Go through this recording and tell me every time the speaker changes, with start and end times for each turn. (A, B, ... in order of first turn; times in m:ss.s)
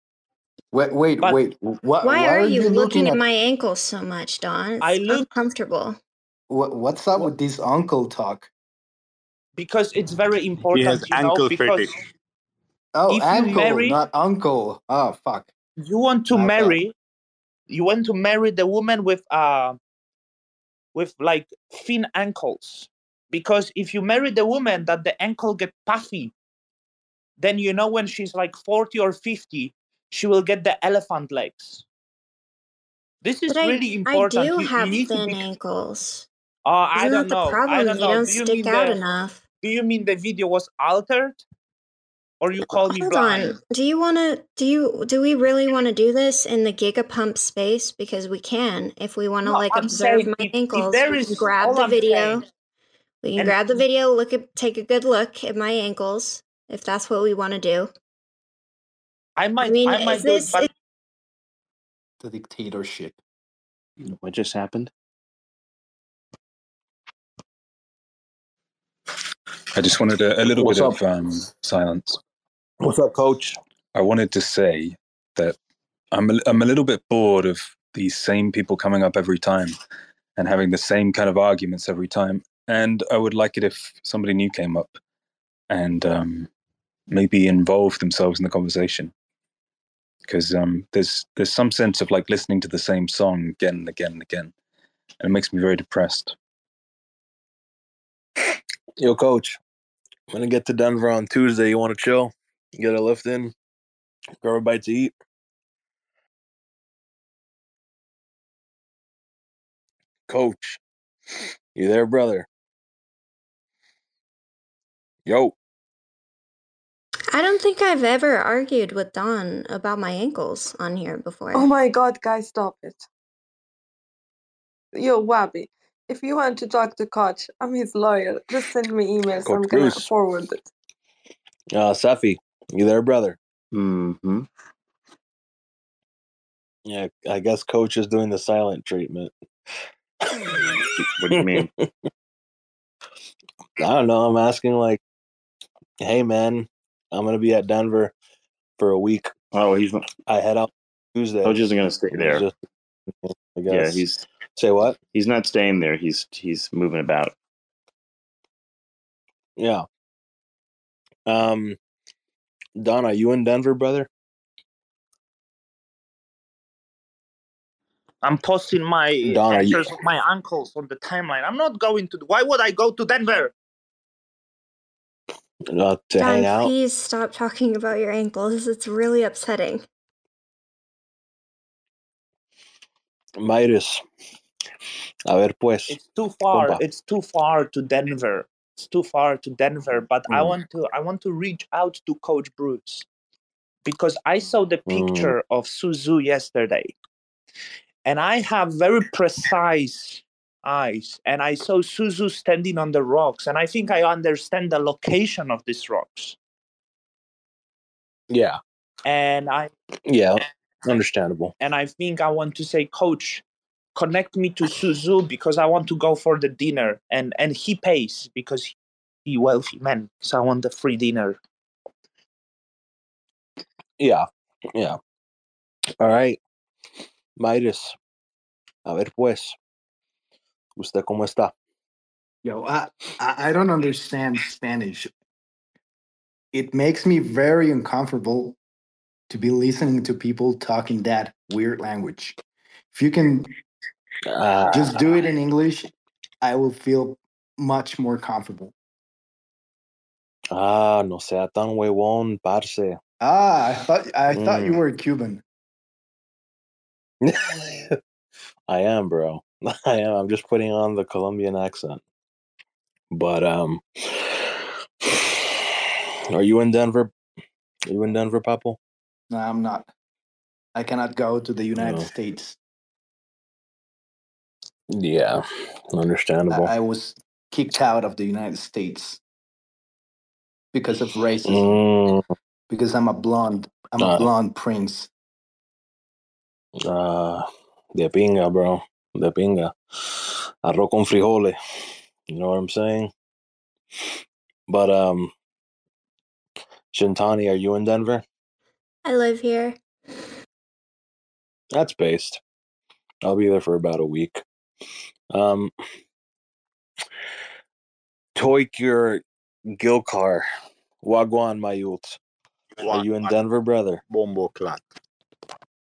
0:00.7-0:03.2 A
0:02.0-0:06.0 B
0:04.8-0:05.3 C
0:06.5-0:08.5 A
0:09.6-0:11.9 C
0:10.7-0:12.0 D
0:12.9-0:15.5 A
0:13.1-0:14.0 C
0:15.8-0:16.9 C
0:16.3-0:16.8 A
0:17.7-0:19.8 C
0:20.9-0:26.3 C
0:27.4-0:31.8 C
0:33.2-0:35.4 C
0:33.5-0:36.3 B
0:36.6-0:39.0 C
0:37.0-0:39.4 B
0:39.6-0:41.4 C
0:42.4-0:43.5 C
0:42.6-0:52.4 B
0:49.4-0:52.4 C
0:53.2-0:57.9 B
0:59.4-1:00.7 C
0:59.6-1:00.7 B
1:02.2-1:03.2 A
1:04.0-1:04.9 E
1:09.7-1:12.2 F
1:10.5-1:10.9 A
1:12.8-1:13.5 G
1:13.9-1:15.6 F
1:16.1-1:19.8 F
1:20.4-1:25.0 F
1:25.7-1:26.5 F
1:27.1-1:29.1 F
1:30.2-1:34.5 F
1:35.2-1:36.3 F
1:39.0-1:39.6 G
1:40.3-1:43.5 G
1:44.4-1:45.1 G
1:50.3-1:50.8 G
1:51.7-1:52.5 G
1:55.2-1:55.5 G
1:57.3-2:01.7 B
2:01.5-2:03.0 H
2:04.9-2:10.6 H
2:09.4-2:10.1 G
2:11.7-2:13.4 G
2:13.7-2:14.5 E
2:16.8-2:19.3 G
2:20.2-2:21.9 G
2:21.0-2:21.7 E
2:23.8-2:25.0 G
2:26.0-2:28.1 G
2:28.8-2:29.3 G
2:29.5-2:30.0 E
2:30.3-2:31.6 G
2:31.4-2:32.5 E
2:32.1-2:32.5 G
2:33.1-2:35.0 G
2:33.7-2:34.2 E
2:35.1-2:37.3 E
2:39.6-2:39.8 G
2:41.3-2:41.8 G
2:42.8-2:44.1 G
2:48.2-2:53.5 C
2:49.2-2:49.9 G
2:55.7-2:56.7 G
2:56.2-2:59.8 B
3:03.4-3:04.0 G
3:05.3-3:06.0 G
3:05.9-3:13.0 C
3:06.5-3:06.8 G
3:13.8-3:16.9 C
3:14.9-3:15.3 G
3:18.0-3:26.4 C
3:28.3-3:28.6 G
3:29.0-3:29.7 C
3:30.0-3:31.5 G
3:31.6-3:33.4 C
3:33.9-3:41.4 C
3:44.0-3:45.0 G
3:46.0-3:46.4 G
3:47.4-3:47.9 G
3:48.8-3:49.6 G
3:50.8-3:51.5 G
3:52.4-3:55.1 A
3:56.5-3:58.6 A
3:59.3-4:02.4 A
4:02.9-4:03.5 A
4:04.2-4:05.0 G
4:04.7-4:05.9 A
4:06.4-4:08.7 A
4:10.5-4:13.0 G
4:13.2-4:15.4 A
4:14.3-4:14.8 G
4:17.2-4:18.0 G
4:18.7-4:22.0 G
4:23.1-4:25.7 G
4:26.3-4:27.1 G
4:27.9-4:28.8 G
4:29.3-4:29.9 A
4:30.7-4:32.6 A
4:31.8-4:32.1 G
4:34.9-4:36.7 G
4:36.5-4:39.2 A
4:40.7-4:41.7 A
4:41.4-4:42.2 G
4:42.7-4:45.1 A
4:44.0-4:44.3 G
4:46.8-4:51.6 G
4:52.3-4:53.1 G
4:54.7-4:55.3 G
4:56.9-4:58.2 G
4:59.0-4:59.8 B
5:01.7-5:02.4 G
5:03.2-5:04.4 G
5:05.3-5:05.7 G
5:08.4-5:10.4 G
5:11.0-5:12.2 G
5:12.8-5:13.3 D
5:12.8-5:14.0 G
5:14.1-5:14.8 D